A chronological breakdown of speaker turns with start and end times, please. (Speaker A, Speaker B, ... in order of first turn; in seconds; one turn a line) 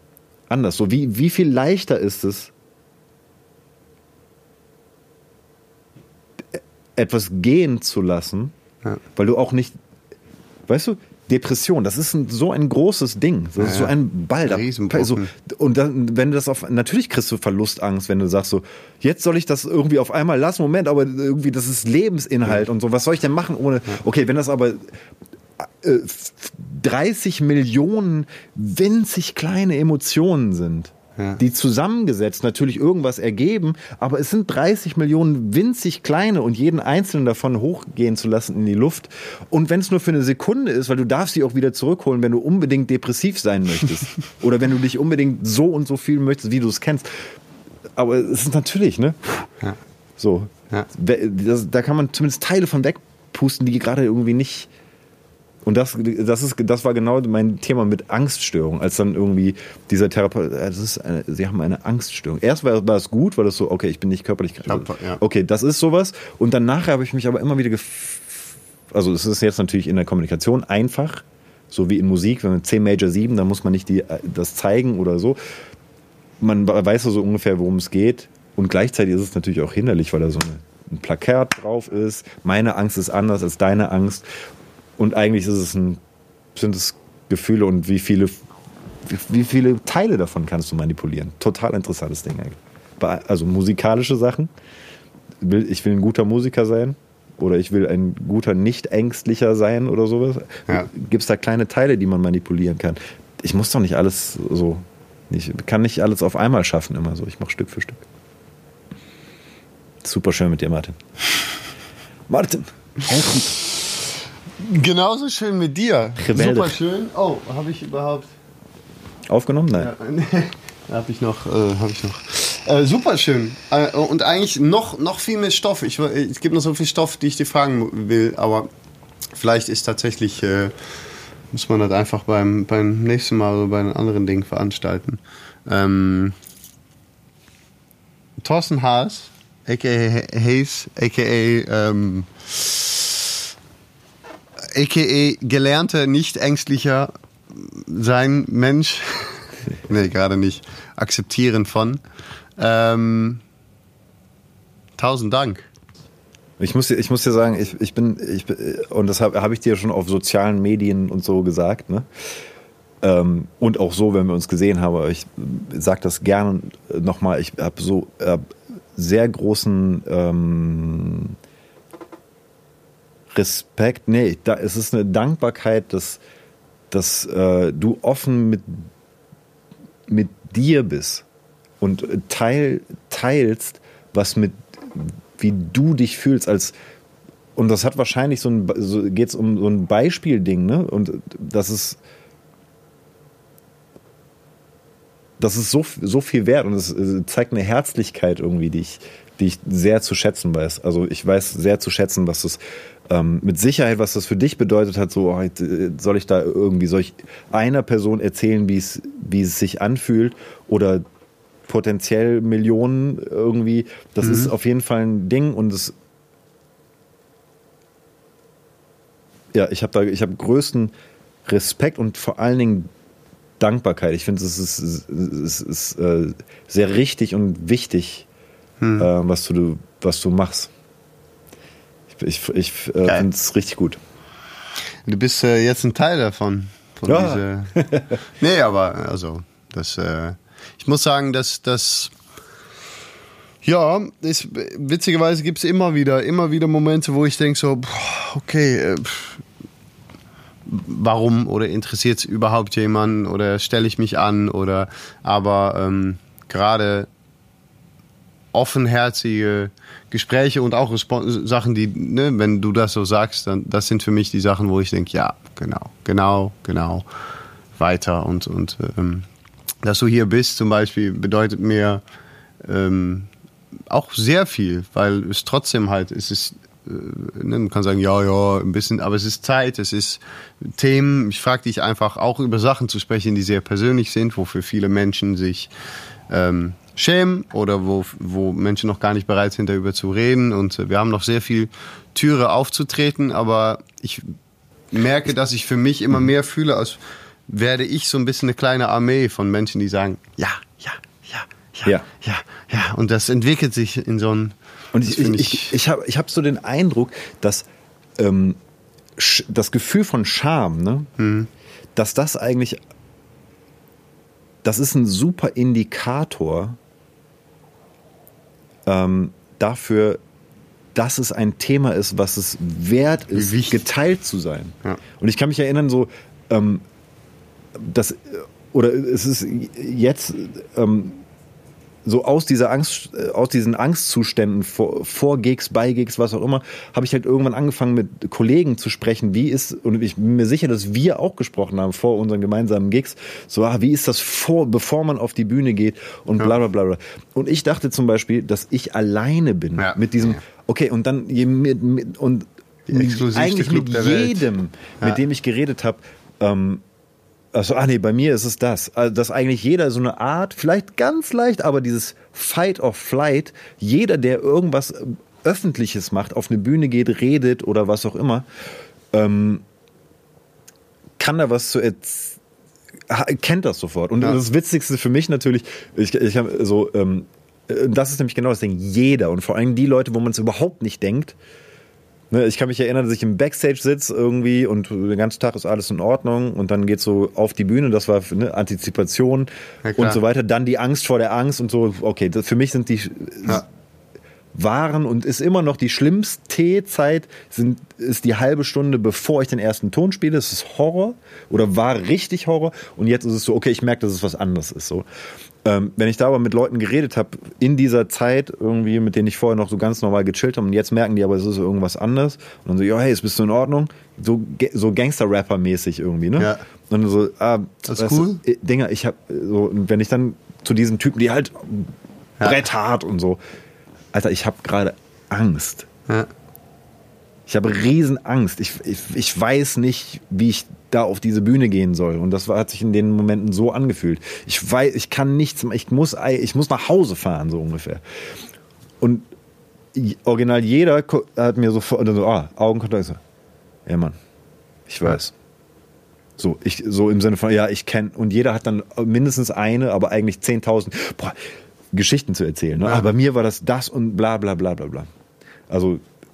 Speaker A: 0.5-2.5
Speaker A: 6.5-8.5
Speaker A: 9.2-9.7
Speaker A: 10.7-24.9
Speaker B: 13.6-15.3
Speaker A: 25.6-47.4
Speaker A: 48.0-49.2
Speaker A: 50.2-54.7
Speaker A: 55.6-75.4
Speaker B: 64.7-65.2
Speaker A: 76.4-84.2
Speaker A: 85.0-86.0
Speaker A: 86.5-88.4
Speaker A: 89.0-94.5
Speaker A: 95.4-108.0
Speaker A: 110.0-111.0
Speaker A: 112.3-113.6
Speaker B: 114.6-118.3
Speaker A: 116.2-116.8
Speaker A: 119.3-119.9
Speaker B: 119.8-128.7
Speaker B: 129.3-130.7
Speaker B: 131.5-136.3
Speaker B: 138.4-143.2
Speaker B: 144.7-152.0
Speaker B: 152.6-153.4
Speaker B: 155.0-155.7
Speaker A: 156.6-162.1
Speaker A: 163.0-171.3
Speaker A: 173.3-176.2
Speaker A: 176.9-178.9
Speaker A: 180.1-181.2
Speaker A: 181.8-186.7
Speaker A: 187.6-192.0
Speaker A: 195.4-211.0
Speaker A: 211.7-215.9
Speaker B: 214.2-214.5
Speaker A: 219.5-220.9
Speaker A: 221.4-222.9
Speaker A: 223.6-228.2
Speaker B: 228.8-229.1
Speaker A: 229.0-230.7
Speaker A: 232.1-234.0
Speaker B: 235.1-237.7
Speaker A: 237.1-238.1
Speaker B: 238.4-242.1
Speaker B: 243.6-249.4
Speaker B: 250.7-257.1
Speaker B: 258.5-267.0
Speaker B: 267.8-269.3
Speaker B: 269.8-272.0
Speaker B: 272.6-273.3
Speaker B: 273.9-285.7
Speaker B: 286.3-294.3
Speaker B: 294.9-305.7
Speaker A: 304.9-307.7
Speaker A: 308.2-308.6
Speaker A: 309.2-311.1
Speaker B: 311.2-311.5
Speaker A: 311.9-312.8
Speaker A: 314.6-316.8
Speaker A: 318.9-320.2
Speaker A: 320.9-326.8
Speaker B: 323.3-323.8
Speaker A: 327.7-331.2
Speaker A: 332.0-356.8
Speaker B: 349.8-350.4
Speaker B: 352.9-354.4
Speaker A: 357.5-368.4
Speaker A: 369.1-369.6
Speaker A: 371.2-372.4
Speaker A: 373.1-381.4
Speaker A: 382.3-393.6
Speaker B: 389.8-390.2
Speaker A: 394.5-405.1
Speaker A: 405.6-423.4
Speaker B: 416.4-416.6
Speaker B: 417.8-418.4
Speaker A: 424.1-425.9
Speaker A: 427.5-438.0
Speaker A: 439.0-439.2
Speaker A: 439.9-443.2
Speaker A: 443.9-444.1
Speaker A: 444.9-445.3
Speaker A: 446.4-451.4
Speaker A: 451.9-455.1
Speaker A: 455.7-456.0